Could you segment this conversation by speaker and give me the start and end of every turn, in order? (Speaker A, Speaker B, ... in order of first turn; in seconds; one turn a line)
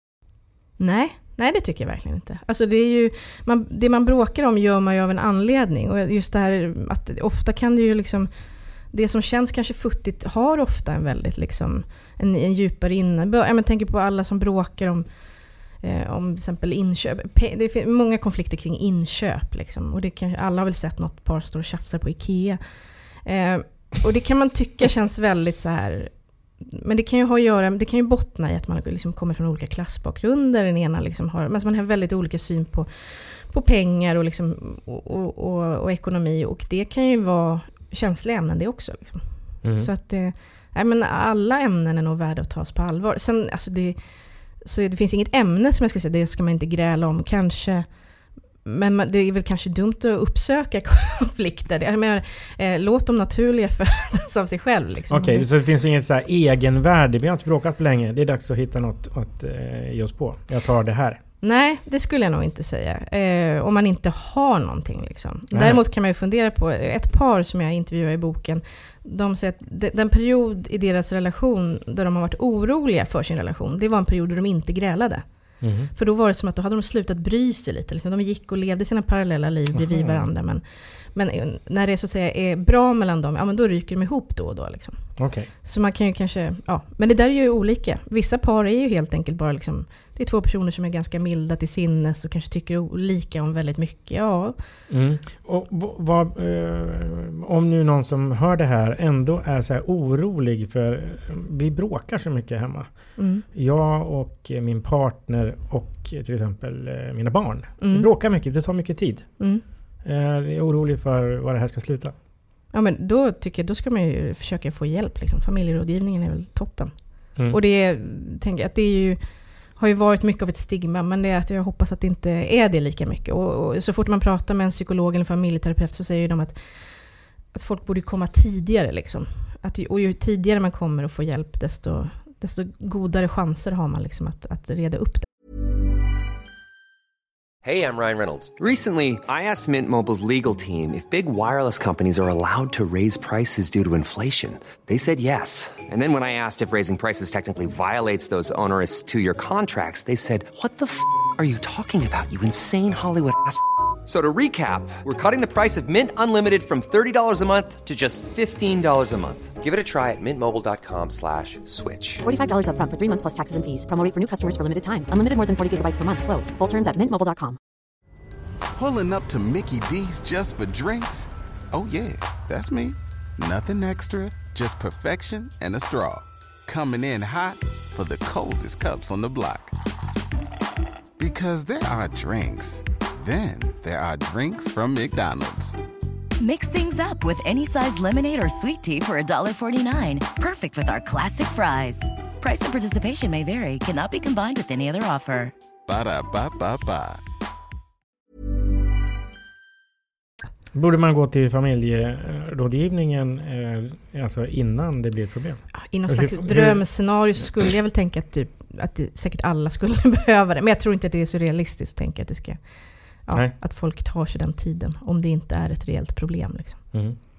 Speaker A: 0.8-55.5
Speaker B: 39.6-39.9
Speaker B: 55.1-61.2
Speaker A: 61.4-94.6
Speaker B: 65.5-65.8
Speaker B: 75.6-75.9
Speaker B: 79.7-80.3
Speaker B: 85.2-85.5
Speaker B: 94.9-112.1
Speaker A: 103.2-103.4
Speaker A: 107.8-108.1
Speaker A: 109.4-109.6
Speaker A: 112.7-135.3
Speaker C: 137.6-162.2
Speaker D: 162.2-167.6
Speaker E: 168.7-179.7
Speaker E: 181.2-185.7
Speaker F: 186.4-195.5
Speaker E: 195.8-197.2
Speaker B: 200.7-207.5
Speaker A: 205.7-216.9